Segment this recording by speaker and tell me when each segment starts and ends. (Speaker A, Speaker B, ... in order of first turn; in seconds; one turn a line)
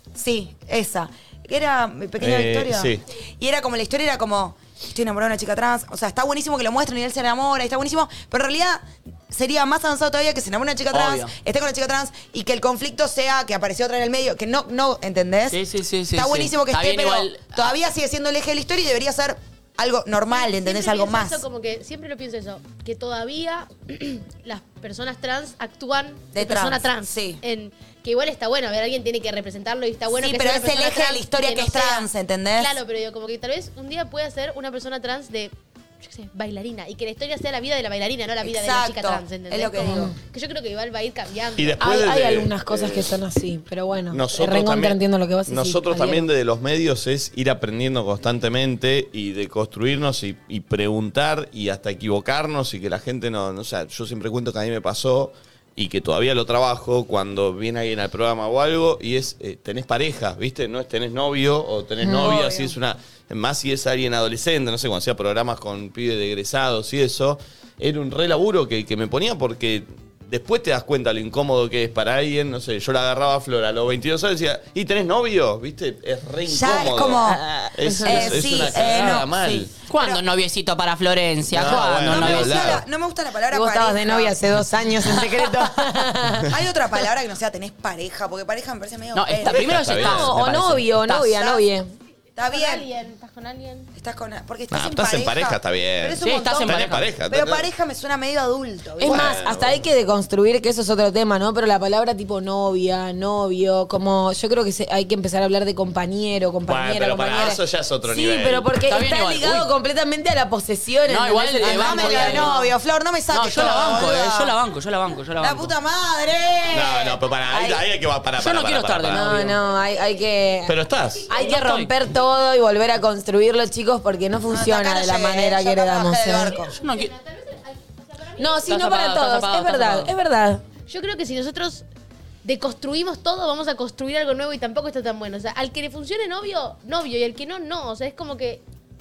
Speaker A: 0.1-15.6
Speaker B: 2.2-3.0
Speaker C: 10.9-11.3
Speaker C: 15.5-17.7
Speaker A: 16.1-21.4
Speaker D: 20.3-41.8
Speaker A: 26.3-27.4
Speaker A: 30.1-32.8
Speaker A: 38.4-40.1
Speaker E: 39.8-40.2
Speaker B: 41.6-43.2
Speaker E: 41.8-46.3
Speaker B: 44.1-79.7
Speaker E: 62.0-62.4
Speaker A: 62.1-62.8
Speaker A: 76.5-77.4
Speaker E: 77.2-78.4
Speaker A: 78.0-80.2
Speaker C: 79.9-82.8
Speaker B: 81.5-82.8
Speaker A: 81.6-84.4
Speaker E: 83.5-86.5
Speaker A: 86.5-90.0
Speaker C: 89.1-91.5
Speaker B: 89.5-90.3
Speaker E: 90.0-91.9
Speaker A: 91.4-91.6
Speaker A: 92.4-92.9
Speaker D: 92.5-93.9
Speaker A: 93.9-99.4
Speaker B: 94.7-97.7
Speaker C: 96.2-97.1
Speaker E: 99.0-112.6
Speaker B: 99.0-99.8
Speaker B: 106.7-108.7
Speaker C: 108.9-109.7
Speaker C: 111.1-112.6
Speaker A: 111.6-114.5
Speaker C: 113.3-115.7
Speaker A: 115.4-117.8
Speaker B: 116.7-119.5
Speaker C: 118.4-119.6
Speaker E: 119.1-120.8
Speaker B: 120.7-121.3
Speaker E: 121.3-126.6
Speaker C: 121.4-121.9
Speaker A: 124.5-126.8
Speaker D: 126.7-128.7
Speaker C: 126.7-127.1
Speaker E: 128.4-130.6
Speaker C: 128.6-130.1
Speaker D: 130.9-131.8
Speaker D: 132.4-138.6